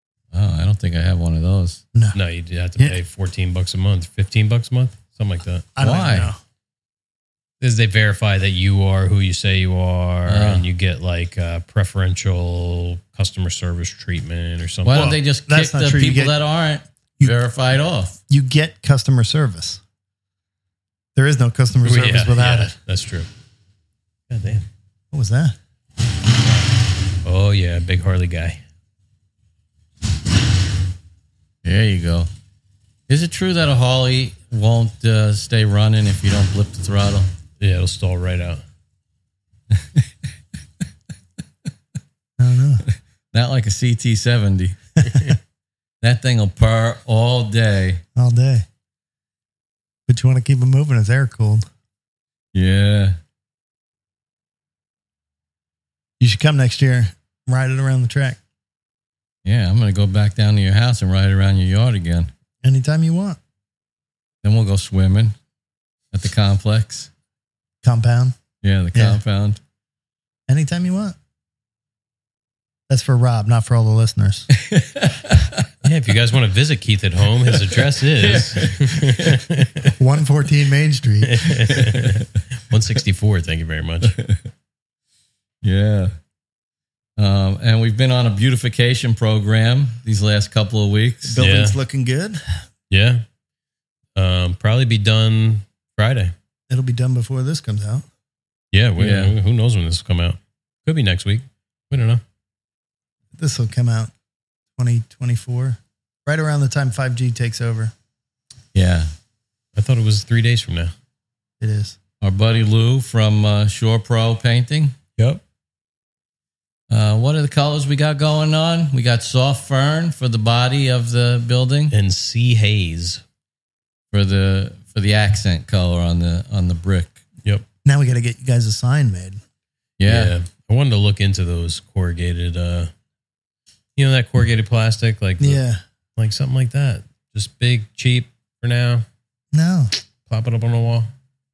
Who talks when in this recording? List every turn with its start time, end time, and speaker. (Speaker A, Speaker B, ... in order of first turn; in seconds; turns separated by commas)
Speaker A: 0.3-1.8, Speaker B: 2.1-5.7, Speaker C: 5.8-6.4, Speaker A: 5.8-6.3, Speaker B: 7.6-15.2, Speaker A: 10.3-10.7, Speaker A: 14.8-18.2, Speaker C: 14.9-16.3, Speaker C: 18.3-19.8, Speaker C: 21.1-22.7, Speaker B: 21.8-23.3, Speaker B: 24.3-24.6, Speaker C: 25.1-25.6, Speaker B: 27.2-28.6, Speaker A: 31.6-32.3, Speaker A: 33.1-37.3, Speaker B: 37.6-38.6, Speaker C: 42.4-42.9, Speaker A: 43.3-44.8, Speaker B: 45.0-45.4, Speaker A: 46.0-48.0, Speaker C: 48.2-48.7, Speaker C: 50.1-51.6, Speaker A: 52.5-53.2, Speaker C: 56.2-58.4, Speaker A: 59.5-62.3, Speaker C: 62.6-63.4, Speaker A: 64.4-65.3, Speaker A: 66.1-67.1, Speaker C: 67.8-68.3, Speaker A: 68.6-69.6, Speaker C: 68.9-69.2, Speaker C: 70.5-71.2, Speaker C: 72.9-74.5, Speaker A: 74.6-75.7, Speaker B: 75.8-79.9, Speaker A: 77.7-79.4, Speaker C: 80.0-81.8, Speaker B: 81.2-84.2, Speaker A: 81.7-82.1, Speaker A: 84.1-84.4, Speaker A: 85.6-86.1, Speaker A: 87.2-91.4, Speaker C: 91.3-92.6, Speaker B: 91.4-91.8, Speaker B: 92.9-93.2, Speaker B: 94.2-96.3, Speaker C: 96.7-98.1, Speaker B: 98.7-102.2, Speaker A: 99.0-99.3, Speaker C: 103.4-104.1, Speaker C: 104.8-107.9, Speaker A: 108.7-109.1, Speaker B: 109.8-110.9, Speaker C: 111.6-112.0, Speaker A: 112.2-115.0, Speaker A: 116.9-121.9, Speaker B: 121.9-123.2, Speaker A: 124.1-127.2, Speaker C: 127.8-129.4, Speaker A: 130.0-130.3, Speaker B: 130.0-132.9, Speaker B: 134.0-135.6, Speaker C: 135.4-135.8, Speaker B: 136.2-139.1, Speaker C: 139.5-139.9, Speaker B: 140.3-141.1